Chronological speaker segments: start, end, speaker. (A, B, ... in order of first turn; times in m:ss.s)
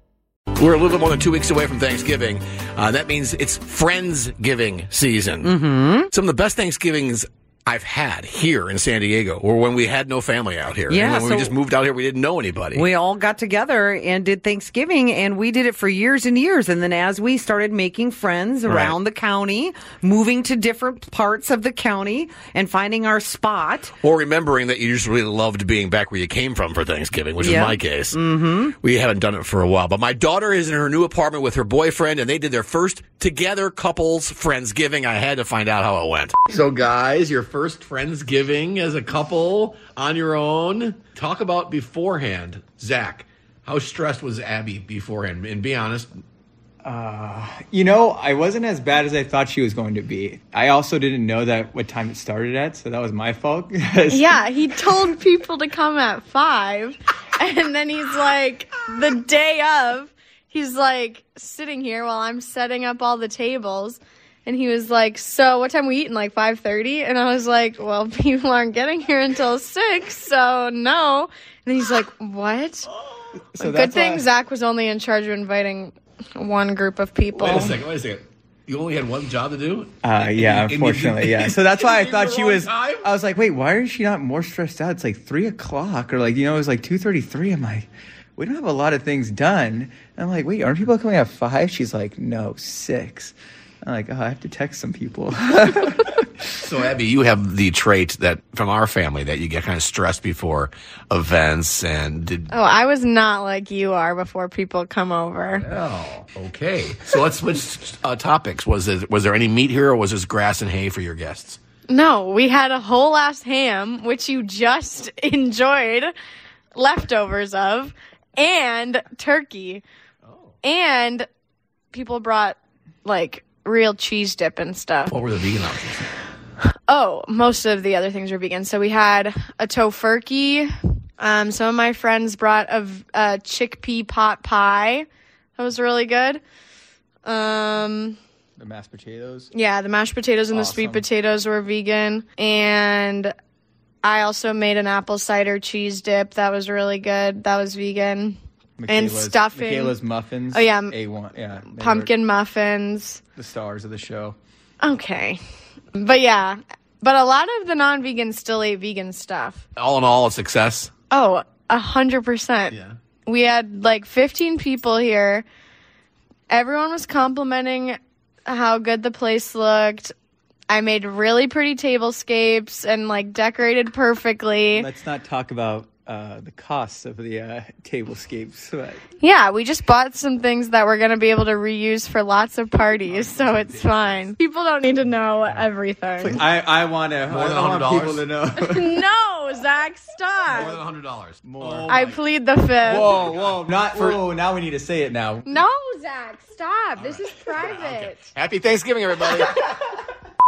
0:00.6-0:05.6 A
0:05.4-0:06.1 B
0:06.1-0:12.8 A
0:10.9-0:11.5 B
0:12.7-0:23.9 B
0:18.6-0:19.0 A
0:24.0-0:46.1 A
0:27.4-0:28.7 B
0:46.8-0:54.4 C
0:54.1-1:12.8 D
1:13.6-1:17.8 D
1:13.6-1:14.2 C
1:17.3-1:23.1 A
1:20.0-1:36.2 C
1:36.6-1:42.5 A
1:42.5-1:45.6 D
1:45.6-1:51.6 A
1:51.9-1:56.1 D
1:56.8-1:59.8 D
2:00.2-2:00.5 A
2:00.6-2:01.2 D
2:01.9-2:05.1 D
2:05.1-2:06.1 A
2:06.9-2:10.7 D
2:11.2-2:15.0 D
2:15.6-2:16.4 D
2:17.2-2:18.2 D
2:18.6-2:19.5 C
2:19.5-2:23.3 D
2:20.5-2:21.0 C
2:24.0-2:28.4 D
2:28.8-2:32.1 C
2:28.9-2:30.0 D
2:30.5-2:30.9 D
2:31.6-2:33.2 D
2:33.3-2:34.4 C
2:34.8-2:35.4 D
2:36.0-2:39.6 D
2:39.8-2:40.9 A
2:41.1-2:42.7 D
2:42.7-2:42.9 A
2:43.2-2:45.4 D
2:46.5-2:50.1 D
2:50.7-2:54.9 D
2:54.8-2:59.0 C
2:59.2-3:06.4 D
3:03.1-3:04.3 A
3:06.2-3:09.0 C
3:07.3-3:08.2 A
3:08.6-3:10.8 D
3:10.5-3:12.2 A
3:11.4-3:12.0 C
3:11.9-3:13.2 D
3:12.9-3:14.2 A
3:12.9-3:15.6 C
3:15.4-3:18.3 D
3:17.0-3:19.8 A